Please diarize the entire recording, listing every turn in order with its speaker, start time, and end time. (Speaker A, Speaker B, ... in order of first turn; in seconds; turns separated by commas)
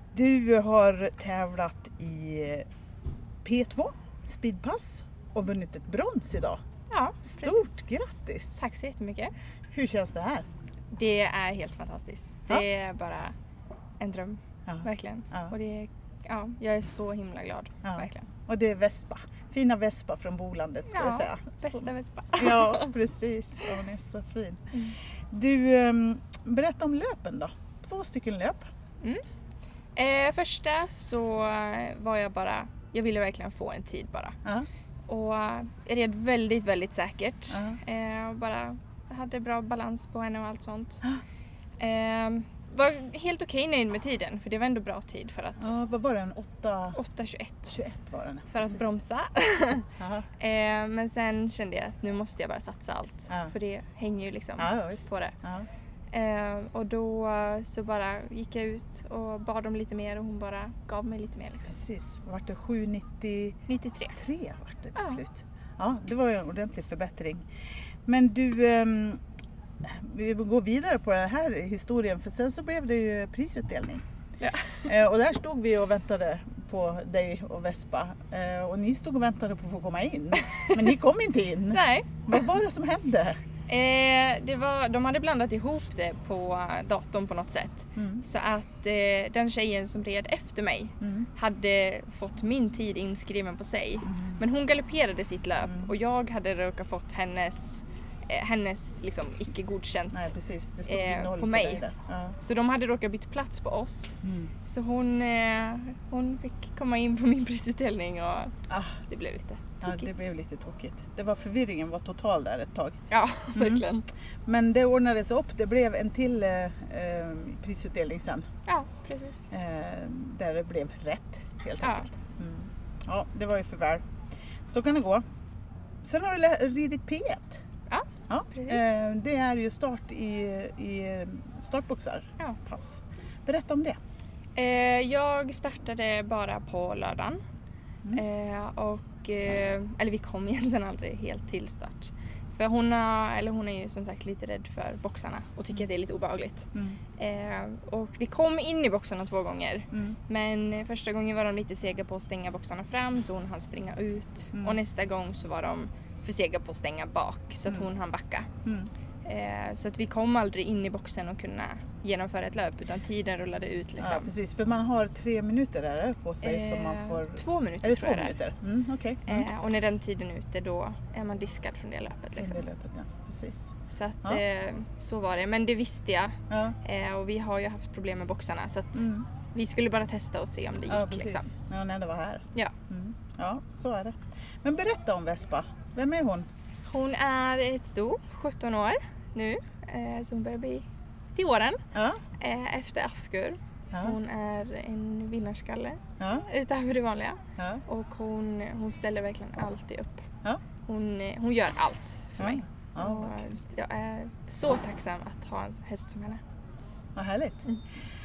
Speaker A: 0.1-2.7, Speaker A: 3.4-6.6, Speaker B: 6.9-7.7, Speaker A: 7.2-8.6, Speaker B: 8.6-9.3, Speaker A: 9.7-10.5, Speaker B: 10.9-13.3, Speaker B: 14.0-18.3, Speaker A: 14.7-15.5, Speaker A: 17.8-28.6, Speaker B: 20.9-22.9, Speaker B: 30.0-34.4, Speaker B: 35.1-41.0, Speaker A: 37.5-37.8, Speaker B: 41.8-45.8, Speaker A: 45.6-47.0, Speaker B: 47.0-47.8, Speaker A: 47.7-48.9, Speaker B: 48.5-49.9, Speaker A: 50.0-50.3, Speaker B: 50.4-55.4, Speaker A: 54.6-55.7, Speaker B: 56.1-61.8, Speaker A: 61.6-63.6, Speaker B: 63.7-64.2, Speaker A: 64.2-67.5, Speaker A: 68.1-69.2, Speaker A: 69.8-74.0, Speaker B: 74.4-74.9, Speaker A: 74.8-83.4, Speaker B: 80.4-80.9, Speaker B: 81.7-82.4, Speaker B: 83.7-100.3, Speaker A: 88.0-88.2, Speaker A: 91.0-91.3, Speaker A: 94.1-94.4, Speaker A: 95.6-95.9, Speaker A: 100.1-102.4, Speaker B: 100.8-101.9, Speaker B: 102.4-108.5, Speaker A: 104.2-104.5, Speaker A: 108.7-109.0, Speaker B: 109.1-110.1, Speaker A: 109.8-113.0, Speaker B: 113.1-114.1, Speaker A: 113.5-113.9, Speaker A: 114.5-118.5, Speaker B: 118.7-119.5, Speaker A: 119.5-124.1, Speaker B: 121.8-122.1, Speaker A: 124.7-125.2, Speaker A: 126.0-127.6, Speaker B: 127.9-128.8, Speaker A: 128.3-134.0, Speaker B: 134.6-137.4, Speaker B: 138.1-158.5, Speaker A: 154.5-154.8, Speaker A: 158.7-158.9, Speaker B: 159.2-164.3, Speaker A: 164.0-169.5, Speaker B: 166.4-168.4, Speaker B: 169.3-172.7, Speaker A: 172.3-174.4, Speaker B: 173.9-181.5, Speaker A: 176.5-176.8, Speaker A: 178.9-179.3, Speaker A: 180.9-186.5, Speaker B: 186.9-191.8, Speaker A: 191.9-192.2, Speaker B: 192.4-200.3, Speaker A: 193.9-194.2, Speaker A: 196.2-196.5, Speaker A: 197.6-197.8, Speaker B: 200.9-206.4, Speaker A: 202.4-203.4, Speaker A: 207.2-207.7